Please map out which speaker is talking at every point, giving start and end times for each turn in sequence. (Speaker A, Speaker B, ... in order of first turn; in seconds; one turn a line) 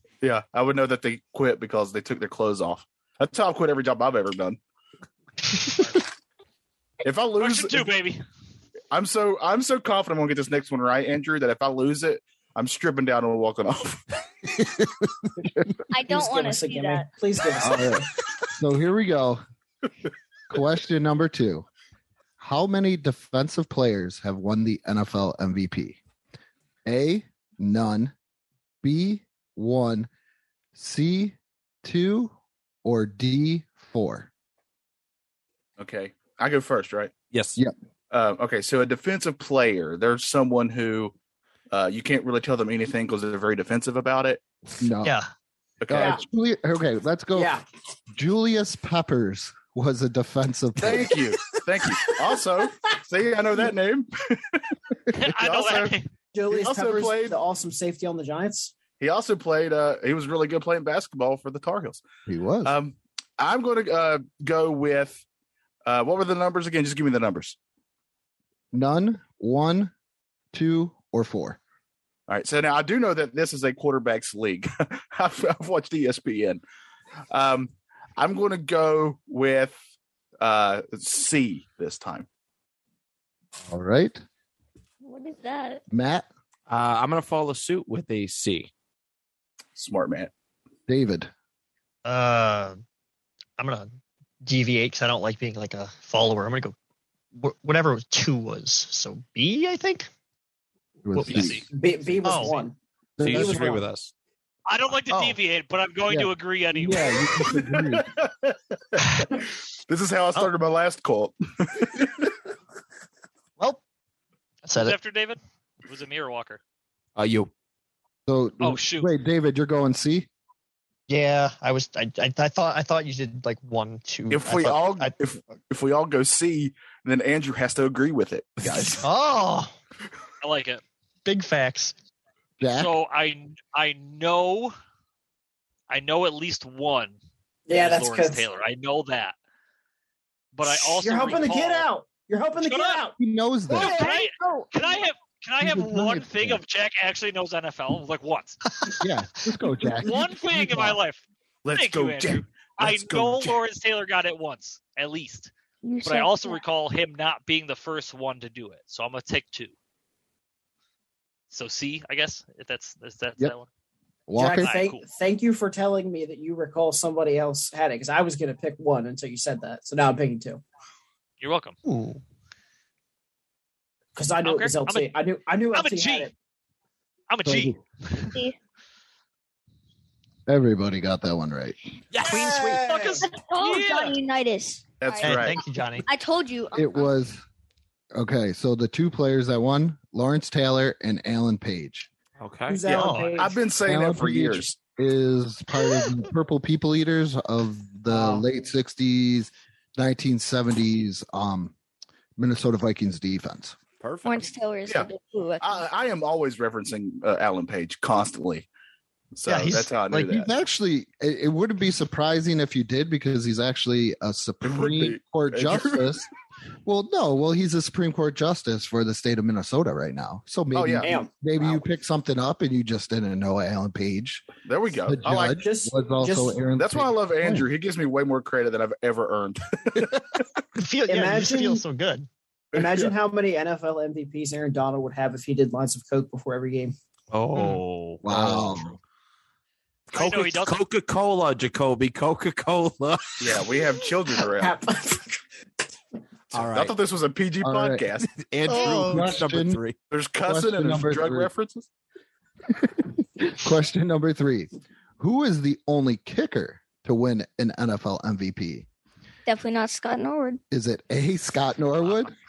Speaker A: 0.2-4.6
Speaker A: 7.0-7.9
Speaker B: 7.4-8.2
Speaker A: 8.9-14.1
Speaker C: 15.4-15.7
Speaker D: 15.9-17.1
Speaker E: 16.1-18.1
Speaker C: 17.6-19.4
Speaker C: 20.5-21.7
Speaker C: 22.4-26.0
Speaker C: 26.9-28.1
Speaker C: 28.8-30.1
Speaker C: 30.8-32.3
Speaker C: 32.8-34.3
Speaker A: 35.8-37.1
Speaker F: 37.3-37.6
Speaker A: 38.1-41.1
Speaker A: 41.7-44.4
Speaker C: 44.8-45.2
Speaker A: 45.8-46.2
Speaker C: 45.9-47.6
Speaker E: 45.9-46.2
Speaker E: 47.4-47.6
Speaker C: 48.1-51.2
Speaker A: 50.8-54.6
Speaker B: 55.1-56.1
Speaker A: 55.2-56.0
Speaker E: 56.3-58.8
Speaker A: 56.5-57.4
Speaker A: 59.0-62.0
Speaker C: 62.3-62.8
Speaker A: 62.6-65.2
Speaker A: 65.9-67.6
Speaker C: 68.7-69.9
Speaker C: 70.5-71.6
Speaker A: 72.3-76.6
Speaker A: 77.3-79.8
Speaker A: 80.4-82.3
Speaker C: 83.7-84.2
Speaker D: 85.0-85.8
Speaker C: 85.9-86.3
Speaker F: 86.7-88.7
Speaker A: 89.8-90.3
Speaker C: 90.9-91.3
Speaker G: 92.0-92.8
Speaker G: 93.6-93.9
Speaker G: 94.4-96.8
Speaker G: 97.3-100.1
Speaker C: 101.0-101.7
Speaker G: 101.1-101.5
Speaker B: 101.3-101.7
Speaker E: 101.7-102.8
Speaker G: 102.2-102.6
Speaker C: 103.2-103.8
Speaker F: 103.2-104.1
Speaker B: 104.7-107.3
Speaker G: 105.1-105.4
Speaker C: 106.1-108.1
Speaker A: 107.4-112.3
Speaker G: 114.7-115.0
Speaker B: 114.7-116.6
Speaker F: 117.2-117.5
Speaker C: 118.3-120.3
Speaker B: 118.6-119.1
Speaker G: 121.1-125.2
Speaker A: 124.3-129.0
Speaker C: 128.6-129.0
Speaker G: 129.0-129.7
Speaker B: 130.4-130.8
Speaker G: 131.2-132.0
Speaker C: 132.6-132.9
Speaker B: 132.7-134.8
Speaker B: 135.9-137.2
Speaker E: 137.7-138.4
Speaker B: 137.7-139.3
Speaker B: 140.5-141.9
Speaker E: 140.6-143.2
Speaker B: 142.6-143.0
Speaker C: 143.2-144.0
Speaker E: 143.7-144.9
Speaker B: 143.7-148.6
Speaker C: 145.6-146.6
Speaker C: 149.0-151.0
Speaker B: 150.0-155.5
Speaker A: 151.6-153.6
Speaker D: 155.8-156.6
Speaker B: 156.0-159.7
Speaker B: 161.5-163.7
Speaker C: 164.3-164.7
Speaker E: 164.4-170.6
Speaker B: 164.6-165.0
Speaker B: 171.4-171.8
Speaker G: 171.8-172.2
Speaker E: 174.2-176.3
Speaker B: 174.4-175.1
Speaker B: 175.7-176.3
Speaker B: 177.3-178.4
Speaker C: 177.5-177.8
Speaker C: 180.5-181.8
Speaker F: 182.1-182.4
Speaker E: 182.2-183.2
Speaker G: 182.3-182.8
Speaker B: 182.3-184.2
Speaker D: 183.2-187.2
Speaker A: 185.0-185.6
Speaker G: 185.2-186.1
Speaker C: 186.8-187.4
Speaker C: 188.1-192.1
Speaker F: 192.4-192.8
Speaker E: 192.7-193.6
Speaker G: 192.9-193.3
Speaker A: 193.3-194.8
Speaker C: 193.8-201.7
Speaker C: 202.4-203.8
Speaker F: 204.0-204.5
Speaker D: 204.2-205.8
Speaker A: 205.6-208.7
Speaker A: 209.3-210.5
Speaker G: 209.5-210.3
Speaker C: 210.3-216.3
Speaker A: 214.6-216.1
Speaker C: 216.8-224.5
Speaker A: 220.7-221.1
Speaker E: 221.0-221.8
Speaker A: 224.6-225.6
Speaker C: 225.1-227.7
Speaker E: 225.6-226.6
Speaker A: 226.8-230.4
Speaker G: 230.8-232.3
Speaker E: 231.1-231.8
Speaker A: 232.7-233.1
Speaker E: 232.7-236.9
Speaker F: 237.3-238.9
Speaker G: 237.6-237.8
Speaker C: 238.2-239.0
Speaker B: 240.1-240.8
Speaker F: 240.1-243.6
Speaker A: 243.4-244.8
Speaker E: 244.4-245.4
Speaker A: 246.5-248.3
Speaker F: 246.5-247.0
Speaker C: 247.6-248.1
Speaker F: 248.3-250.0
Speaker G: 248.7-249.3
Speaker C: 248.8-249.8
Speaker A: 250.1-251.9
Speaker C: 250.4-251.5
Speaker C: 252.7-258.9
Speaker D: 259.4-260.6
Speaker C: 260.7-262.3